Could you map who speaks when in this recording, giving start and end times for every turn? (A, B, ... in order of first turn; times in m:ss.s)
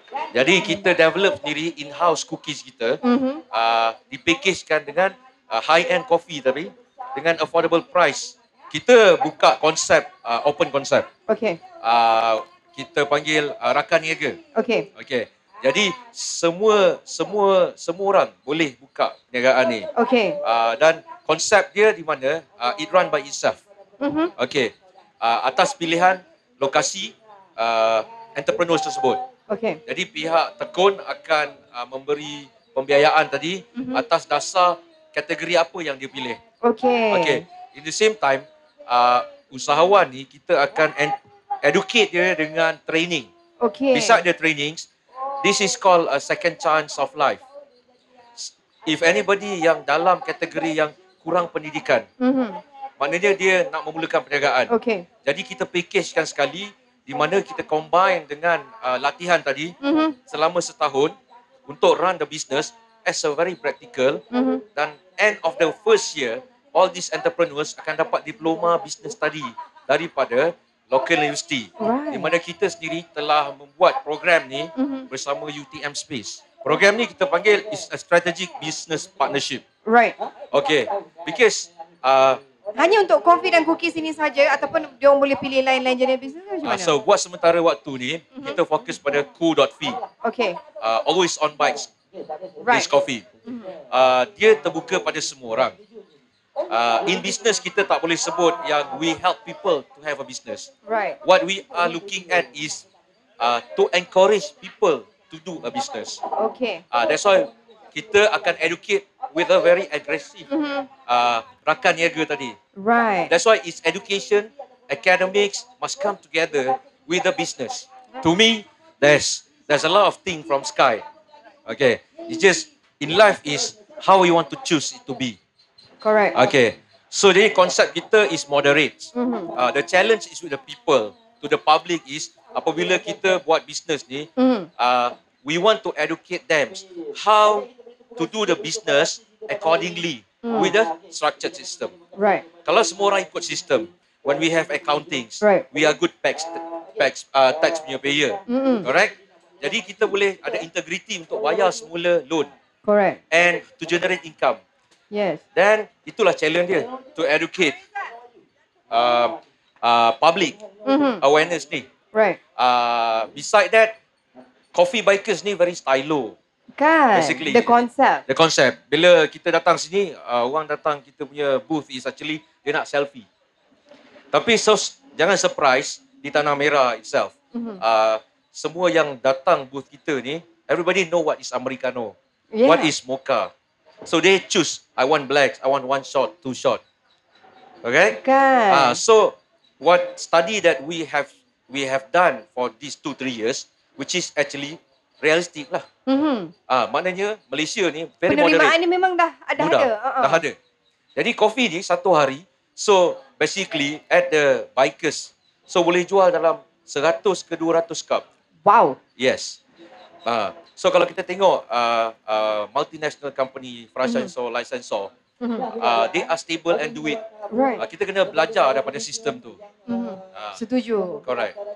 0:00.3-0:03.0 A
0:00.6-0:00.8 B
0:03.0-0:03.4 B
0:03.5-0:11.1 A
0:11.3-0:11.6 B
0:11.8-0:14.4 A
0:14.5-0:14.9 B
0:15.0-0:19.9 A
0:19.9-0:20.4 B
0:20.4-0:23.6 A
0:24.0-0:24.3 B
0:24.4-0:29.2 A
0:29.5-0:29.8 B
0:29.8-0:36.4 A
0:33.8-0:34.0 B
0:36.6-0:37.4 B
0:37.1-0:43.3 A
0:43.6-0:44.2 B
0:43.9-0:44.9 A
0:45.4-0:47.4 A
0:48.4-0:52.0 A
0:52.2-0:52.6 B
0:53.0-1:01.2 A
0:54.7-0:55.0 B
0:59.8-1:00.2 B
1:01.7-1:04.2 A
1:04.3-1:04.6 B
1:04.7-1:19.6 A
1:11.8-1:12.3 B
1:14.8-1:15.1 B
1:19.8-1:20.2 B
1:20.5-1:22.4 A
1:22.7-1:27.0 B
1:26.6-1:30.0 A
1:30.2-1:30.6 B
1:30.7-1:31.9 A
1:32.6-1:35.8 A
1:32.6-1:32.9 B
1:33.4-1:33.7 B
1:36.7-1:40.7 A
1:40.9-1:41.2 B
1:41.2-1:42.8 A
1:43.4-1:46.2 A
1:46.4-1:46.8 B
1:46.9-1:50.5 A
1:50.5-1:50.9 B
1:51.0-1:52.6 A
1:52.8-1:53.3 B
1:53.3-2:01.0 A
2:01.6-2:05.4 A
2:06.0-2:06.4 B
2:06.3-2:21.9 A
2:09.1-2:09.5 B
2:14.4-2:14.7 B
2:20.4-2:20.7 B
2:22.1-2:22.5 B
2:22.6-2:32.5 A
2:25.4-2:25.6 B
2:28.5-2:28.9 B
2:32.8-2:33.2 B
2:33.3-2:34.6 A
2:35.1-2:35.4 B
2:35.5-2:37.8 A
2:38.9-2:40.6 A
2:40.8-2:41.2 B
2:41.2-2:41.9 A
2:42.1-2:42.4 B
2:42.6-2:44.0 A
2:44.7-2:46.4 A
2:46.8-2:48.2 B
2:47.1-2:53.3 A
2:54.3-3:03.5 A
2:57.5-2:57.8 B
3:02.5-3:02.9 B
3:04.0-3:06.8 A
3:07.8-3:15.8 A
3:08.1-3:09.0 B
3:16.1-3:16.5 B
3:16.7-3:18.8 A
3:18.3-3:20.4 B
3:19.6-3:20.6 A
3:21.2-3:28.2 A
3:28.6-3:29.0 B
3:29.2-3:29.6 A
3:30.2-3:35.1 A
3:34.0-3:34.3 B
3:35.4-3:35.7 B
3:35.7-3:37.2 A
3:37.5-3:37.8 B
3:37.8-3:39.6 A
3:39.9-3:41.2 B
3:40.3-3:40.6 A
3:41.2-3:41.6 A